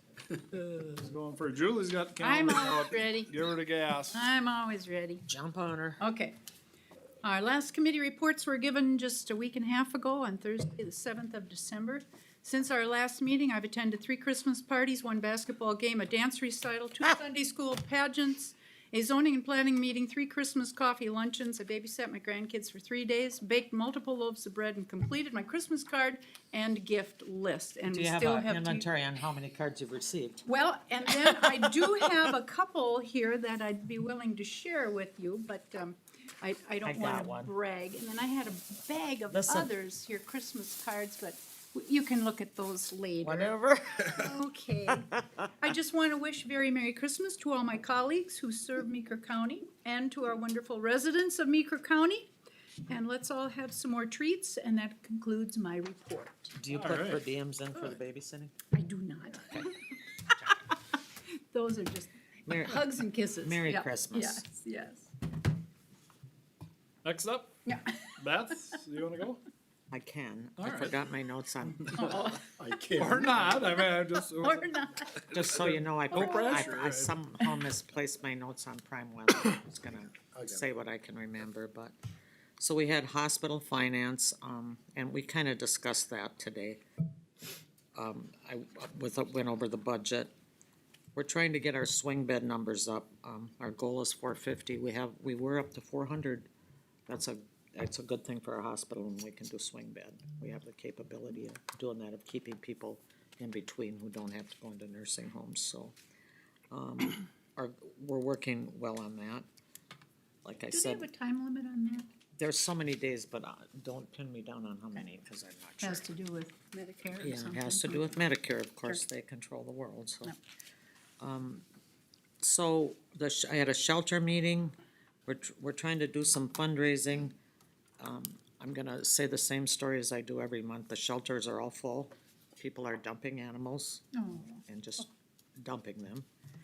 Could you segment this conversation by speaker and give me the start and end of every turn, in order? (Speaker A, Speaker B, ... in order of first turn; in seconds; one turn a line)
Speaker A: 0.6-4.3
Speaker B: 2.2-3.4
Speaker B: 4.1-5.3
Speaker C: 5.3-6.0
Speaker B: 6.0-6.3
Speaker B: 7.2-28.9
Speaker C: 27.9-30.4
Speaker B: 30.4-43.5
Speaker C: 36.8-37.5
Speaker C: 39.3-39.7
Speaker C: 43.2-44.3
Speaker B: 44.0-52.3
Speaker B: 52.9-56.5
Speaker C: 56.5-58.5
Speaker A: 56.7-57.2
Speaker B: 58.7-60.5
Speaker B: 61.5-65.1
Speaker C: 62.5-62.8
Speaker C: 63.4-64.4
Speaker A: 67.0-67.6
Speaker B: 67.7-68.2
Speaker A: 68.2-69.4
Speaker C: 69.9-72.2
Speaker A: 70.6-70.9
Speaker A: 71.9-72.2
Speaker B: 71.9-72.4
Speaker D: 72.3-73.8
Speaker A: 72.9-74.7
Speaker B: 74.4-75.3
Speaker A: 75.2-77.1
Speaker C: 75.3-81.9
Speaker B: 76.1-76.8
Speaker D: 80.1-80.7
Speaker C: 82.6-86.8
Speaker C: 87.9-90.3
Speaker C: 91.1-96.5
Speaker C: 97.1-106.0
Speaker C: 106.7-109.5
Speaker C: 110.4-111.1
Speaker B: 110.7-112.0
Speaker C: 112.3-116.1
Speaker B: 115.8-118.2
Speaker C: 117.2-120.3
Speaker C: 121.2-121.6
Speaker C: 122.4-124.7
Speaker C: 125.2-127.3
Speaker C: 128.0-134.1
Speaker B: 134.1-134.6
Speaker C: 134.7-136.2